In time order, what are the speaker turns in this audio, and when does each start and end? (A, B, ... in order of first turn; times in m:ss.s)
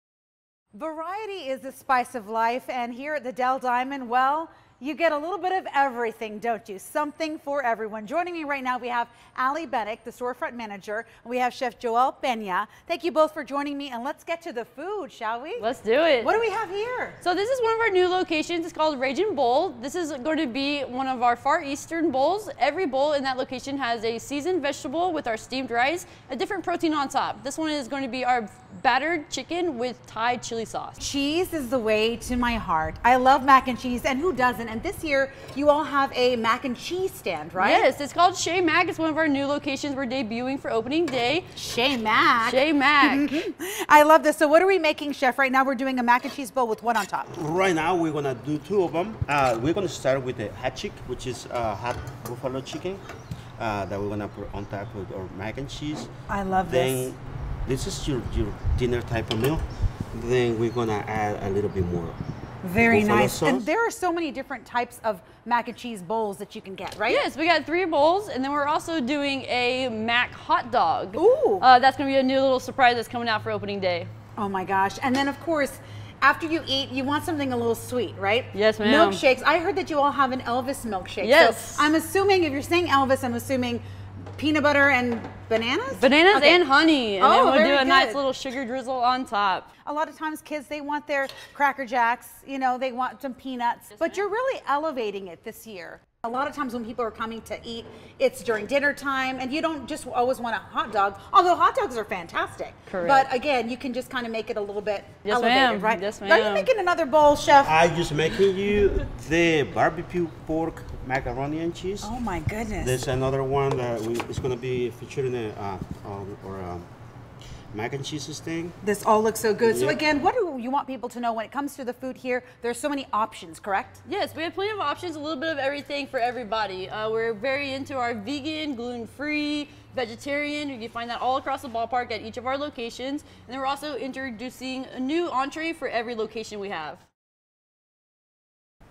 0:00.7-0:15.7 A
0:15.6-0:16.3 B
0:16.2-0:17.2 A
0:17.2-0:31.0 B
0:31.0-0:37.9 A
0:37.6-0:41.5 B
0:41.6-0:47.3 A
0:42.4-0:43.4 B
0:47.3-0:53.0 C
0:53.6-0:56.1 C
0:56.3-0:57.1 A
0:56.6-1:02.2 C
1:02.6-1:07.2 A
1:02.8-1:03.7 C
1:07.1-1:14.1 B
1:11.2-1:11.7 A
1:14.4-1:23.8 A
1:18.5-1:19.2 B
1:21.2-1:21.9 B
1:24.4-1:26.6 A
1:26.0-1:29.7 B
1:27.2-1:28.2 A
1:29.8-1:47.7 A
1:34.0-1:34.2 B
1:42.9-1:43.3 B
1:45.2-1:46.7 B
1:47.6-1:52.1 C
1:52.0-1:53.0 A
1:52.8-1:56.9 C
1:57.7-1:58.8 C
1:58.8-2:04.0 A
1:59.6-2:00.0 C
2:04.1-2:17.0 B